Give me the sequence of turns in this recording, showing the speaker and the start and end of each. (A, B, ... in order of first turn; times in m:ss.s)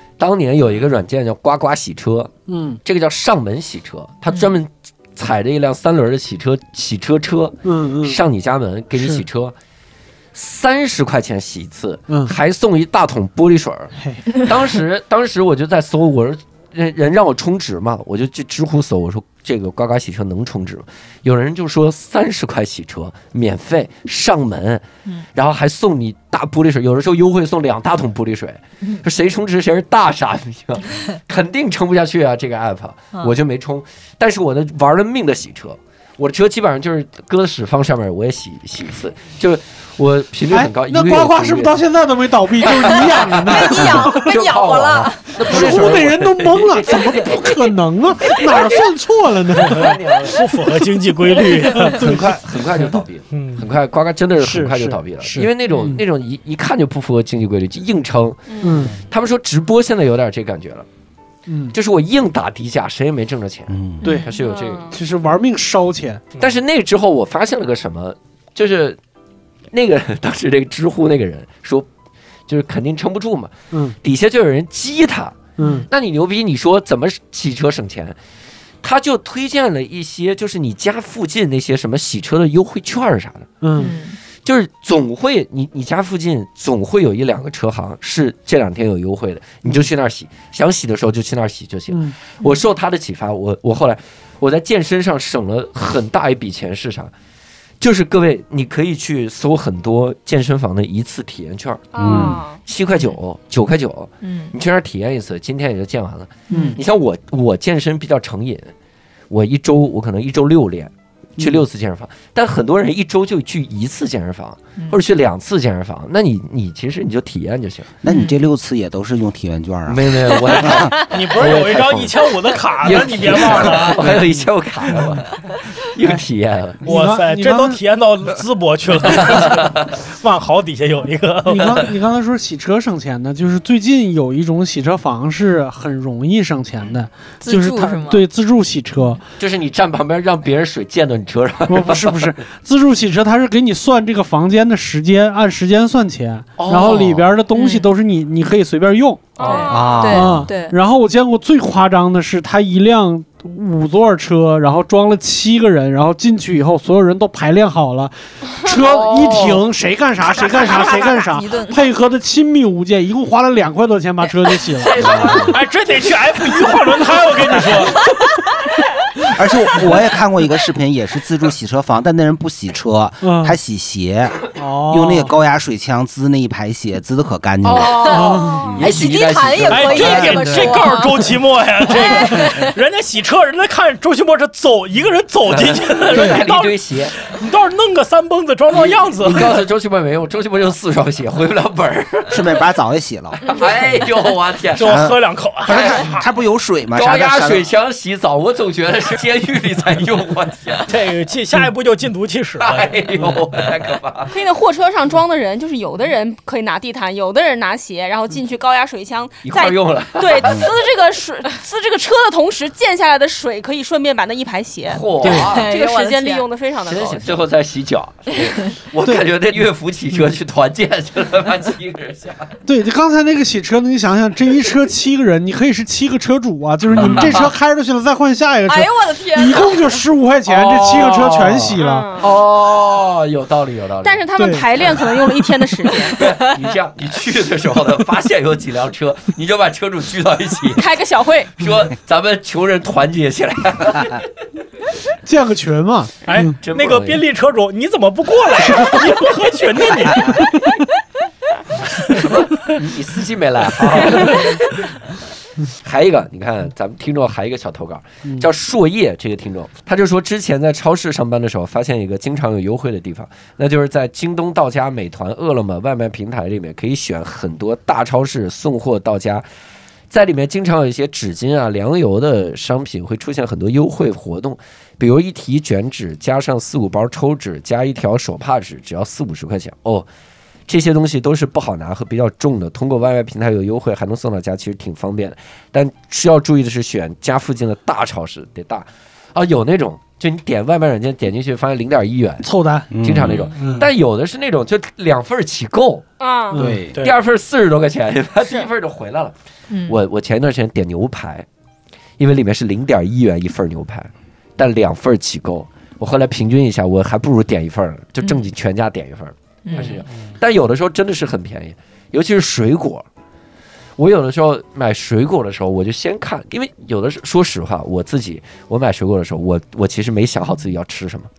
0:00.2-0:09.6 A
0:02.5-0:02.8 B
0:07.6-0:08.2 B
0:08.9-0:09.2 B
0:10.3-0:41.8 A
0:12.1-0:12.4 B
0:14.0-0:14.4 B
0:40.5-0:44.3 B
0:42.6-0:49.0 A
0:43.4-0:45.4 C
0:45.4-0:50.0 B
0:49.5-0:50.6 A
0:49.6-0:52.2 D
0:51.8-0:52.4 B
0:51.8-1:00.8 A
0:53.3-0:53.6 D
0:54.4-0:56.0 B
0:58.5-0:58.9 E
0:58.6-0:59.0 B
1:01.5-1:01.7 B
1:01.7-1:05.0 A
1:03.7-1:04.0 F
1:04.0-1:04.3 C
1:04.4-1:05.0 E
1:04.9-1:06.2 B
1:06.4-1:09.0 A
1:09.7-1:11.9 A
1:12.5-1:18.2 A
1:15.6-1:15.9 B
1:15.6-1:15.8 C
1:18.8-1:23.5 A
1:23.6-1:23.9 B
1:23.7-1:24.2 C
1:24.4-1:37.1 A
1:31.9-1:32.2 B
1:37.8-1:48.7 A
1:41.9-1:42.6 E
1:42.0-1:42.4 F
1:42.1-1:42.4 B
1:44.2-1:44.5 C
1:46.5-1:46.8 B
1:46.5-1:46.8 C
1:49.3-1:57.9 A
1:58.0-2:00.9 F
1:58.1-1:58.3 C
1:59.9-2:02.2 A
2:01.0-2:04.2 D
2:02.8-2:06.8 A
2:04.9-2:05.2 B
2:06.8-2:07.8 B
2:06.8-2:11.8 D
2:09.1-2:09.7 A
2:11.5-2:19.2 B
2:17.4-2:18.2 C
2:19.4-2:22.3 A
2:21.7-2:45.5 B
2:26.6-2:27.3 A
2:27.5-2:27.9 C
2:29.4-2:30.0 E
2:29.4-2:30.7 C
2:29.7-2:30.5 F
2:38.7-2:39.6 A
2:40.2-2:41.8 C
2:44.8-2:45.6 A
2:45.4-2:48.0 D
2:47.4-2:48.0 B
2:49.3-2:58.9 F
2:53.2-2:53.6 B
2:54.6-2:55.3 B
2:57.7-2:58.7 E
2:57.7-3:00.5 A
2:57.9-3:01.2 C
2:58.1-2:58.6 B
2:59.7-3:09.6 D
3:01.9-3:02.7 C
3:05.5-3:07.1 A
3:08.7-3:12.6 A
3:12.3-3:13.4 F
3:13.4-3:15.0 A
3:14.8-3:16.2 D
3:14.8-3:17.7 F
3:16.9-3:20.9 A
3:20.9-3:22.9 D
3:22.6-3:24.3 A
3:24.3-3:37.4 E
3:29.4-3:30.6 A
3:34.9-3:35.7 A
3:35.2-3:36.4 C
3:36.8-3:42.5 A
3:42.6-3:52.1 B
3:46.9-3:47.5 A
3:48.7-3:50.0 C
3:50.5-3:54.3 A
3:51.8-3:52.3 E
3:54.0-3:56.2 E
3:54.4-3:54.7 B
3:56.0-4:00.8 A
4:00.7-4:01.6 E
4:01.6-4:04.2 A
4:05.2-4:06.6 B
4:06.2-4:10.6 D
4:06.6-4:07.2 A
4:10.2-4:10.4 B
4:12.1-4:14.9 A
4:15.6-4:29.4 A
4:30.1-4:40.1 A
4:40.7-4:52.5 A
4:52.4-4:53.0 B
4:52.9-4:53.5 F
4:53.0-4:56.1 A
4:53.6-4:53.9 B
4:56.2-4:56.6 E
4:56.5-4:56.9 B
4:56.6-4:56.9 F
4:57.0-4:59.3 A
4:59.7-5:00.0 C
4:59.9-5:01.4 A
5:02.2-5:13.0 A
5:09.6-5:10.0 C
5:14.0-5:21.3 A